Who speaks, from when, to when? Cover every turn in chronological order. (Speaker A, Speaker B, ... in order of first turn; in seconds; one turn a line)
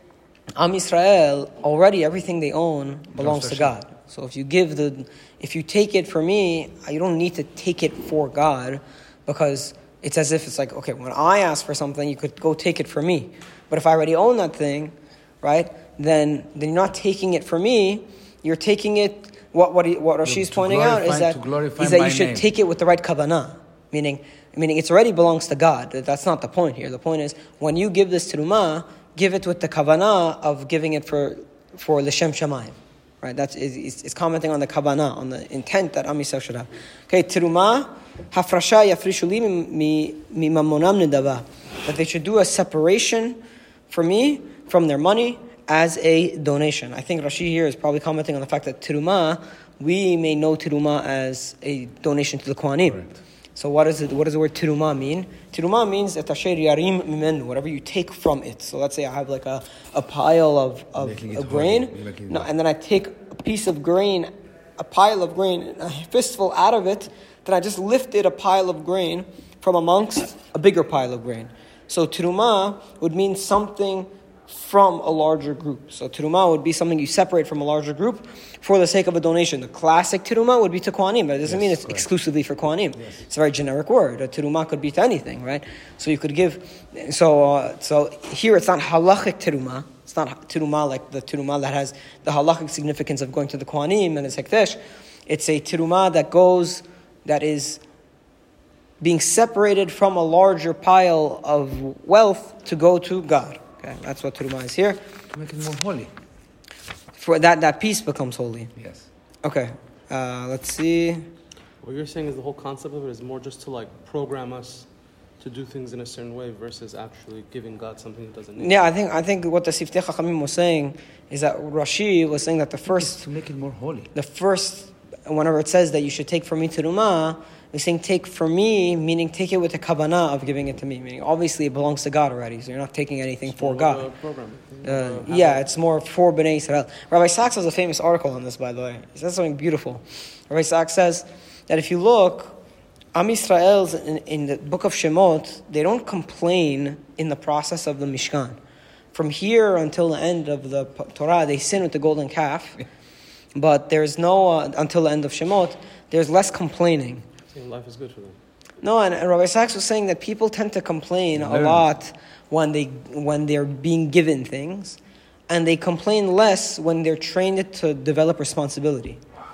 Speaker A: 0.6-97.8
Speaker B: 3.2-3.8
Speaker B: 20.2-22.5
Speaker B: 52.9-53.2
Speaker B: 61.0-62.5
Speaker B: 81.5-82.1
Speaker A: 99.0-105.0
Speaker B: 105.3-106.1
Speaker A: 107.2-108.7
Speaker B: 108.8-109.1
Speaker A: 109.4-111.3
Speaker C: 111.8-114.9
Speaker C: 115.4-118.8
Speaker A: 118.6-123.2
Speaker B: 122.9-124.1
Speaker A: 124.1-134.1
Speaker C: 133.5-135.6
Speaker A: 134.8-142.6
Speaker A: 143.1-148.6
Speaker A: 149.1-152.8
Speaker A: 153.6-157.2
Speaker C: 157.5-158.4
Speaker A: 158.8-169.2
Speaker B: 161.4-161.9